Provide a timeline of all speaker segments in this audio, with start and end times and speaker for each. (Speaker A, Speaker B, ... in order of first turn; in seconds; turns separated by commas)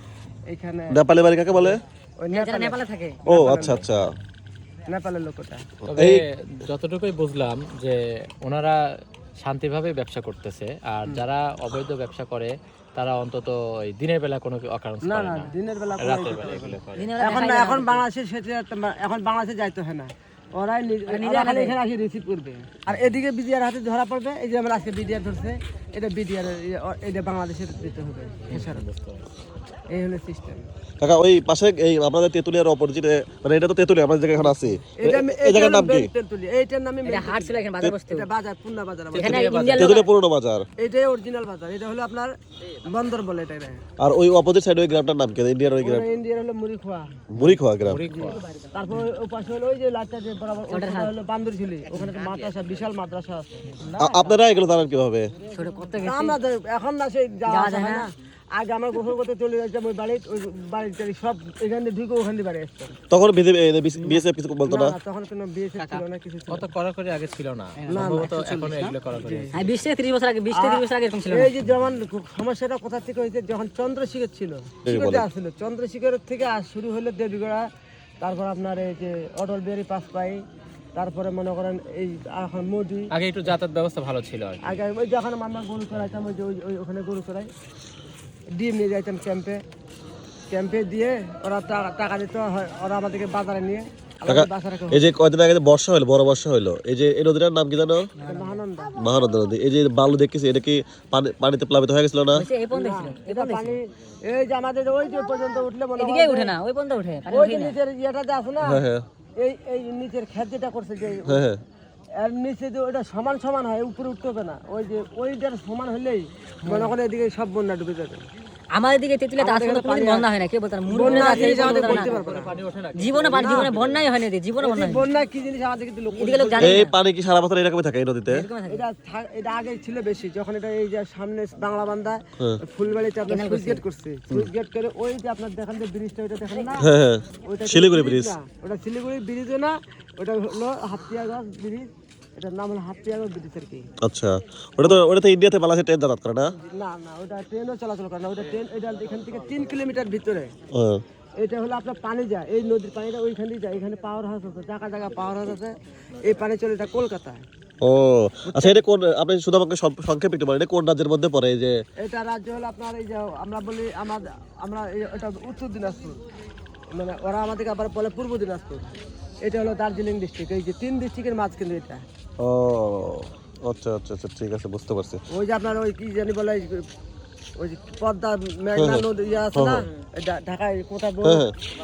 Speaker A: 0.5-1.0, Speaker B: 0.9-1.8, Speaker A: 1.5-3.8, Speaker C: 2.3-3.2, Speaker B: 3.3-4.1, Speaker D: 3.3-3.9, Speaker A: 4.9-5.7, Speaker B: 5.8-6.2, Speaker D: 5.9-8.8, Speaker D: 9.4-17.2, Speaker A: 15.0-28.8, Speaker C: 17.0-18.0, Speaker C: 21.1-21.8, Speaker D: 28.5-29.2, Speaker A: 29.9-30.7, Speaker B: 31.0-36.1, Speaker A: 35.0-39.7, Speaker C: 37.1-38.3, Speaker D: 39.1-40.0, Speaker C: 39.2-40.1, Speaker B: 39.7-40.7, Speaker A: 40.8-42.4, Speaker A: 42.9-43.8, Speaker B: 44.0-46.1, Speaker A: 45.8-47.5, Speaker B: 47.3-48.1, Speaker D: 47.8-48.4, Speaker A: 48.1-53.9, Speaker C: 48.4-48.7, Speaker C: 50.7-51.1, Speaker C: 54.0-54.3, Speaker B: 54.0-55.3, Speaker C: 55.5-56.4, Speaker A: 56.0-63.0, Speaker C: 57.5-58.1, Speaker B: 63.1-65.0, Speaker A: 64.7-66.7, Speaker D: 66.5-69.7, Speaker C: 67.8-68.2, Speaker A: 67.9-69.5, Speaker C: 69.5-71.5, Speaker A: 70.5-77.7, Speaker B: 74.8-75.3, Speaker A: 78.2-80.4, Speaker A: 81.0-83.1, Speaker D: 83.1-84.8, Speaker A: 84.6-87.5, Speaker A: 88.6-89.6, Speaker A: 90.5-95.1, Speaker B: 94.3-98.1, Speaker A: 98.2-99.0, Speaker C: 98.2-98.6, Speaker B: 99.0-102.5, Speaker C: 102.3-103.8, Speaker A: 102.7-106.5, Speaker C: 106.0-107.8, Speaker A: 107.3-108.8, Speaker B: 108.6-109.0, Speaker A: 109.4-111.5, Speaker B: 111.3-111.6, Speaker A: 112.2-118.3, Speaker C: 116.7-116.9, Speaker C: 118.7-122.2, Speaker A: 119.4-120.3, Speaker A: 120.9-122.5, Speaker D: 121.0-124.1, Speaker C: 123.0-125.0, Speaker A: 123.3-123.7, Speaker A: 124.6-126.8, Speaker C: 126.2-126.9, Speaker B: 126.6-128.5, Speaker C: 128.3-128.8, Speaker A: 128.7-136.9, Speaker C: 133.3-133.8, Speaker B: 136.8-138.3, Speaker A: 137.4-143.9, Speaker B: 144.0-146.5, Speaker A: 146.6-150.5, Speaker B: 150.7-151.0, Speaker A: 151.4-157.5, Speaker B: 157.8-161.8, Speaker A: 158.4-158.8, Speaker A: 162.0-166.2, Speaker A: 166.9-172.0, Speaker B: 172.4-175.2, Speaker A: 175.3-176.8, Speaker A: 177.6-181.4, Speaker B: 178.8-179.9, Speaker B: 181.2-181.5